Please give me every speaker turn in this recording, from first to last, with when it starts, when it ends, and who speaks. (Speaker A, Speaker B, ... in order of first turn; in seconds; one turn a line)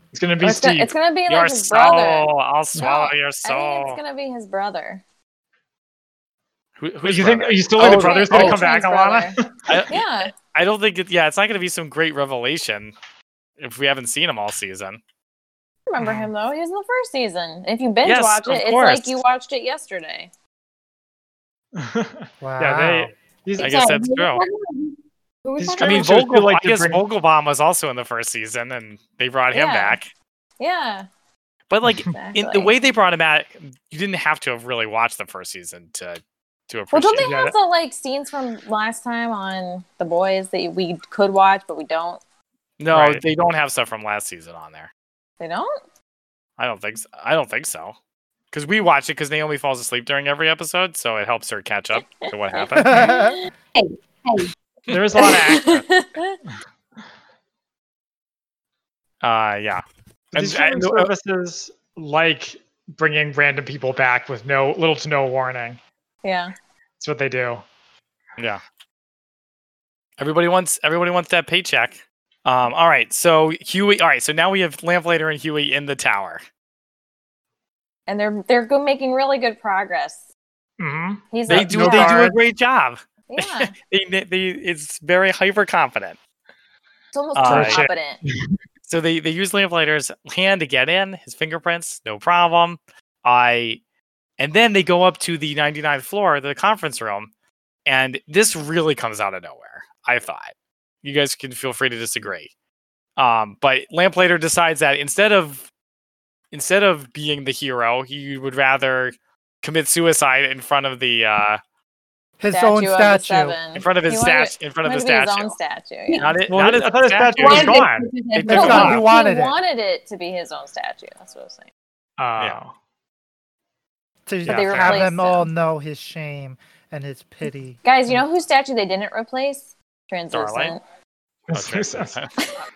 Speaker A: 0.1-0.9
Speaker B: 0.4-5.0
Speaker C: 1.3-4.0
Speaker C: 6.8-8.6
Speaker A: 7.0-9.8
Speaker B: 7.8-9.4
Speaker C: 9.7-12.9
Speaker B: 9.9-10.3
Speaker C: 13.6-15.0
Speaker B: 15.9-20.3
Speaker A: 16.0-16.3
Speaker C: 18.0-19.2
Speaker A: 21.8-23.9
Speaker D: 22.4-23.1
Speaker E: 23.6-26.0
Speaker C: 23.6-24.4
Speaker A: 25.6-27.0
Speaker C: 25.8-30.1
Speaker B: 29.5-30.0
Speaker B: 30.6-31.1
Speaker C: 31.7-37.3
Speaker B: 32.1-32.7
Speaker B: 36.9-42.2
Speaker A: 37.2-37.5
Speaker C: 42.8-44.9
Speaker A: 42.9-43.2
Speaker B: 45.4-45.8
Speaker C: 46.6-47.9
Speaker C: 48.5-53.0
Speaker B: 51.9-53.5
Speaker D: 52.8-53.4
Speaker E: 53.7-54.5
Speaker A: 54.9-55.9
Speaker B: 55.1-56.4
Speaker C: 59.2-61.1
Speaker A: 60.3-65.8
Speaker B: 66.2-66.5
Speaker A: 67.0-67.6
Speaker C: 70.2-76.4
Speaker B: 78.1-80.2
Speaker A: 80.8-82.4
Speaker B: 81.3-82.2
Speaker C: 81.5-86.2
Speaker B: 83.3-83.7
Speaker B: 87.1-88.2
Speaker C: 87.3-87.9
Speaker A: 87.5-88.4
Speaker C: 88.9-93.8
Speaker C: 94.4-97.3
Speaker C: 97.8-100.5
Speaker C: 101.0-102.5
Speaker C: 103.2-105.7
Speaker C: 106.5-111.6
Speaker D: 112.4-113.6
Speaker B: 112.5-116.2
Speaker C: 113.7-115.5
Speaker E: 116.1-116.4
Speaker C: 116.2-119.0
Speaker A: 116.5-118.1
Speaker E: 117.4-119.0
Speaker D: 118.5-119.5
Speaker B: 118.5-121.7
Speaker A: 122.2-122.7
Speaker D: 124.2-127.8
Speaker B: 124.5-125.5
Speaker C: 124.5-125.0
Speaker B: 127.8-130.8
Speaker C: 130.3-130.8
Speaker A: 131.5-132.2
Speaker C: 131.5-132.3